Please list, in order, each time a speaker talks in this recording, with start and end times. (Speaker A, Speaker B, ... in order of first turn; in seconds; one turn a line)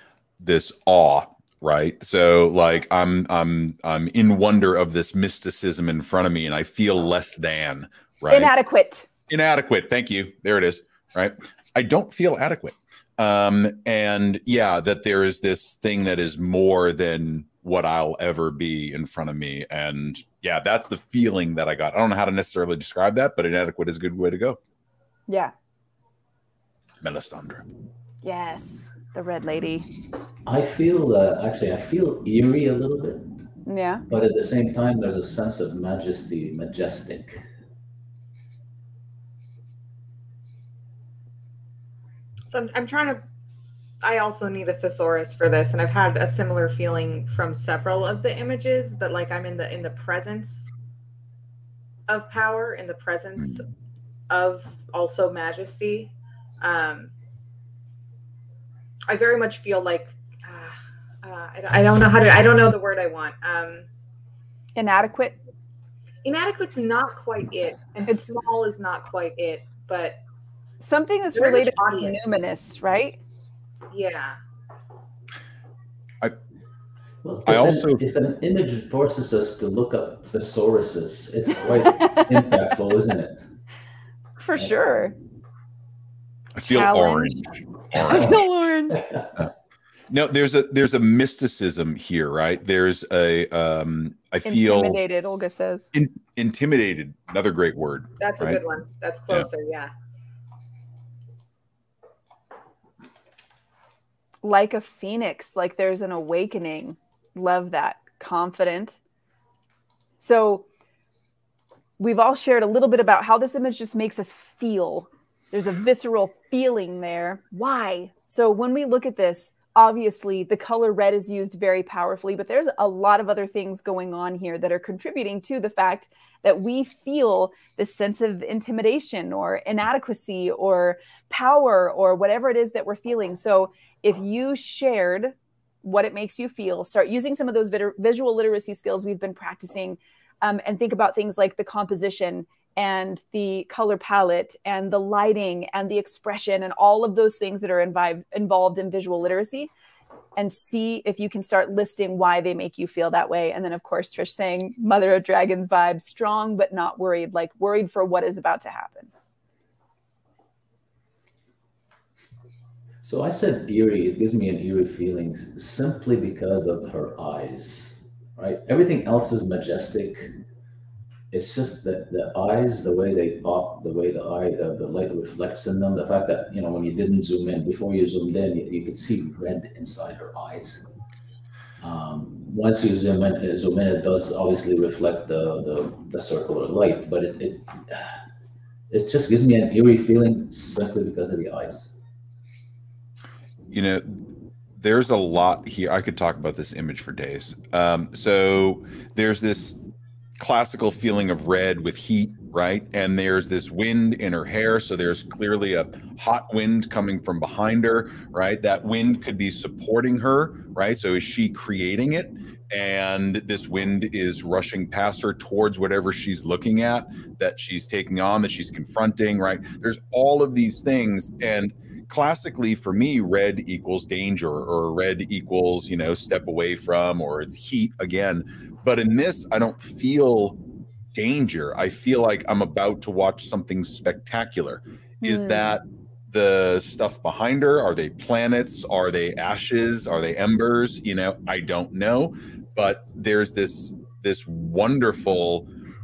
Speaker A: 0.4-8.5
Speaker B: 8.3-9.1
Speaker A: 9.3-24.6
Speaker B: 25.3-25.5
Speaker A: 27.0-27.6
Speaker B: 28.2-29.9
Speaker C: 30.5-33.3
Speaker B: 33.7-34.0
Speaker C: 34.1-37.4
Speaker D: 42.5-43.2
Speaker D: 44.0-50.7
Speaker D: 52.1-53.6
Speaker D: 54.3-57.1
Speaker D: 59.1-63.9
Speaker B: 64.8-65.3
Speaker D: 66.2-70.2
Speaker B: 68.1-68.4
Speaker B: 70.8-73.2
Speaker D: 71.3-72.3
Speaker D: 73.9-74.4
Speaker C: 77.2-83.5
Speaker A: 77.5-78.1
Speaker B: 82.0-82.3
Speaker B: 84.4-85.2
Speaker A: 86.5-88.4
Speaker B: 86.6-87.4
Speaker B: 88.0-89.0
Speaker C: 88.9-89.3
Speaker A: 90.1-95.0
Speaker B: 94.5-95.9
Speaker A: 95.9-98.6
Speaker D: 98.2-99.9
Speaker B: 104.4-109.0
Speaker B: 110.2-110.7
Speaker B: 112.0-149.7
Speaker B: 150.4-159.1
Speaker C: 163.0-170.3
Speaker C: 171.3-180.9
Speaker C: 181.8-188.2
Speaker C: 188.9-192.0
Speaker A: 193.7-194.2
Speaker A: 194.8-199.8
Speaker A: 200.4-230.6
Speaker A: 231.1-245.7
Speaker B: 235.2-235.7